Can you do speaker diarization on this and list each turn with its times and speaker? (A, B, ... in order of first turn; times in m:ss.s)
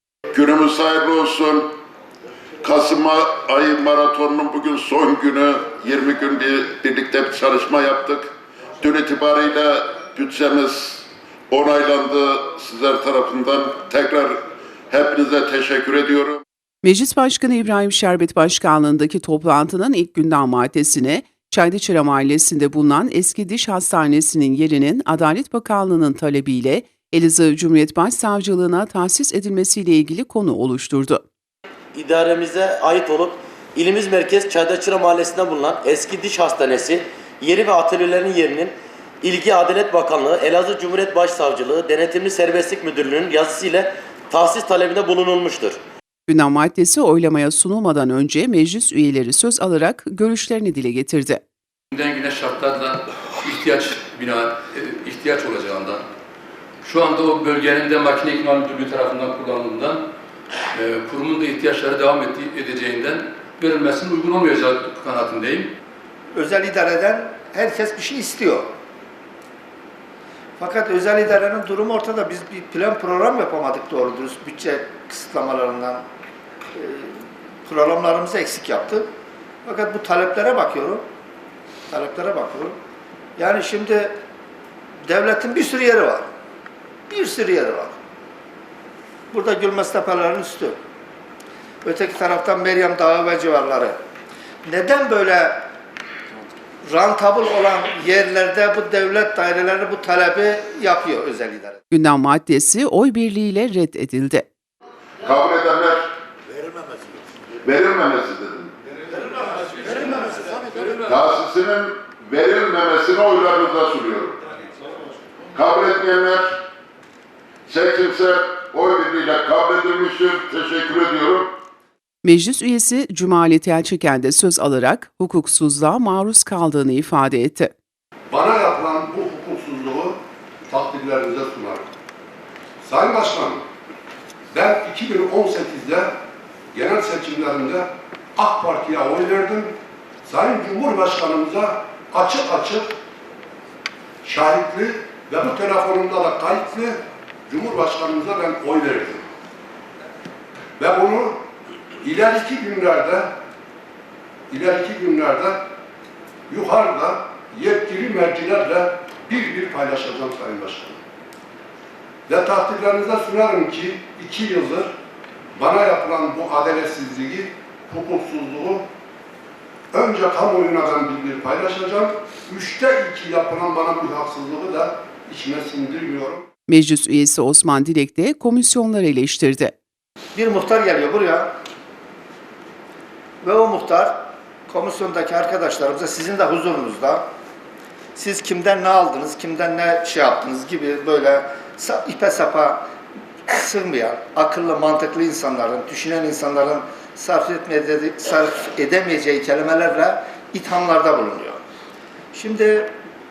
0:00.3-0:01.7 A
0:02.6-0:08.3 A
0:08.8-0:14.4 A
0:14.9-0:16.4 A
0:16.8-0:31.2 B
0:31.9-0:45.8 C
0:46.3-0:51.4 B
0:51.9-0:56.0 D
0:56.8-1:00.0 D
1:00.7-1:05.7 D
1:06.4-1:08.7 E
1:10.6-1:16.0 E
1:16.8-1:17.1 E
1:17.7-1:19.1 E
1:19.6-1:21.0 E
1:21.9-1:22.8 E
1:23.4-1:24.1 E
1:25.1-1:26.3 E
1:27.1-1:27.9 E
1:29.3-1:30.8 E
1:31.8-1:34.0 E
1:34.6-1:35.6 E
1:36.9-1:41.8 E
1:41.9-1:44.5 B
1:45.2-1:46.1 A
1:47.6-1:48.7 A
1:51.0-1:54.4 A
1:55.5-1:56.6 A
1:57.7-2:01.5 A
2:02.2-2:07.7 B
2:08.3-2:10.2 F
2:10.7-2:11.8 F
2:12.8-2:13.6 F
2:14.5-2:16.2 F
2:16.7-2:19.7 F
2:20.2-2:22.9 F
2:24.2-2:29.3 F
2:30.8-2:31.4 F
2:32.0-2:33.3 F
2:34.5-2:35.7 F
2:36.5-2:41.0 F
2:42.3-2:44.9 F
2:45.6-2:48.8 F
2:49.9-2:56.5 F
2:56.7-2:59.8 B
3:00.4-3:01.5 E
3:03.4-3:04.2 E
3:04.7-3:07.2 E
3:08.2-3:12.8 E
3:13.5-3:21.6 E
3:22.3-3:22.9 E